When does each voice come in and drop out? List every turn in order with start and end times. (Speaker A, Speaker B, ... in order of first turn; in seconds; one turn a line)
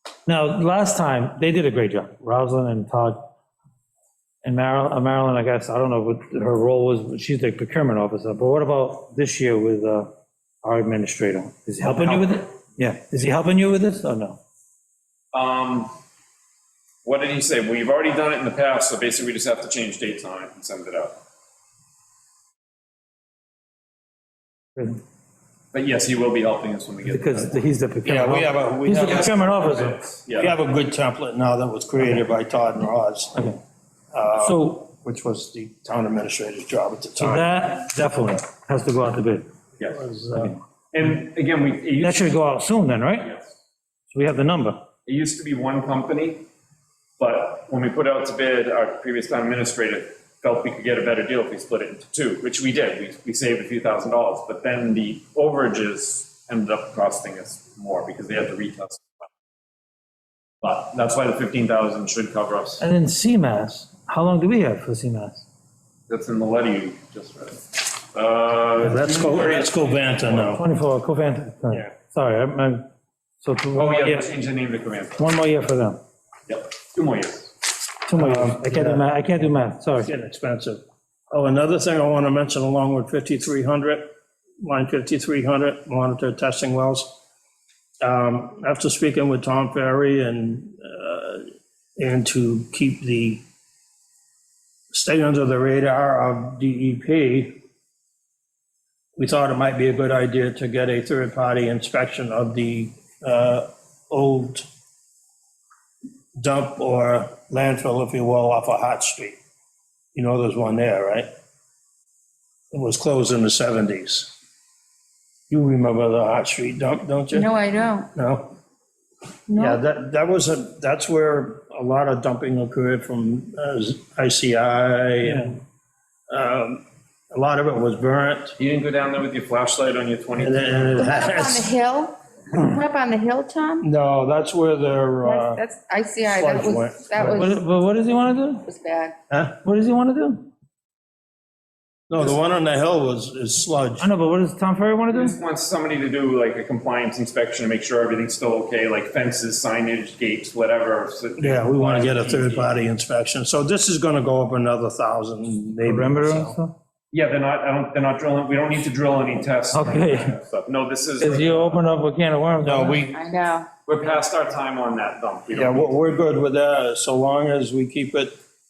Speaker A: 0.2-3.3
Speaker A: 4.4-10.1
Speaker A: 10.6-14.4
Speaker B: 11.8-12.4
Speaker B: 15.3-15.9
Speaker B: 17.0-21.2
Speaker B: 25.7-27.5
Speaker A: 27.0-30.1
Speaker C: 28.0-29.4
Speaker B: 29.0-30.5
Speaker C: 30.4-33.4
Speaker C: 34.1-37.5
Speaker A: 34.4-34.8
Speaker A: 37.2-39.5
Speaker C: 39.9-40.5
Speaker B: 40.9-42.4
Speaker A: 42.0-43.3
Speaker B: 43.2-43.5
Speaker A: 44.1-44.8
Speaker B: 45.0-46.4
Speaker B: 47.2-59.2
Speaker B: 60.6-62.8
Speaker A: 62.8-65.4
Speaker B: 66.1-70.5
Speaker C: 68.8-70.6
Speaker A: 70.4-72.8
Speaker A: 73.4-74.3
Speaker B: 73.7-75.3
Speaker A: 75.2-76.0
Speaker B: 76.5-77.5
Speaker A: 78.0-80.1
Speaker C: 78.1-79.0
Speaker C: 80.0-84.1
Speaker C: 84.6-87.2
Speaker C: 88.0-93.4
Speaker C: 94.9-97.6
Speaker C: 99.2-104.7
Speaker C: 106.4-109.4
Speaker C: 110.1-111.3
Speaker C: 112.7-114.3
Speaker C: 115.5-117.5
Speaker D: 117.3-118.1
Speaker C: 118.1-118.5
Speaker D: 119.5-119.8
Speaker C: 119.5-125.6
Speaker C: 126.3-128.6
Speaker B: 128.6-131.1
Speaker C: 130.4-131.7
Speaker D: 131.0-133.8
Speaker C: 133.8-135.6
Speaker D: 135.2-137.6
Speaker C: 136.2-137.2
Speaker A: 137.2-138.7
Speaker D: 138.6-139.1
Speaker C: 139.3-139.5
Speaker A: 139.6-140.5
Speaker C: 142.1-144.1
Speaker A: 144.0-145.3
Speaker B: 145.1-152.8
Speaker C: 151.4-156.6
Speaker A: 155.8-156.7
Speaker B: 157.1-161.8
Speaker A: 159.7-160.3
Speaker A: 161.2-163.0
Speaker C: 162.6-163.2
Speaker D: 162.8-163.7
Speaker B: 163.8-165.9
Speaker C: 165.5-168.3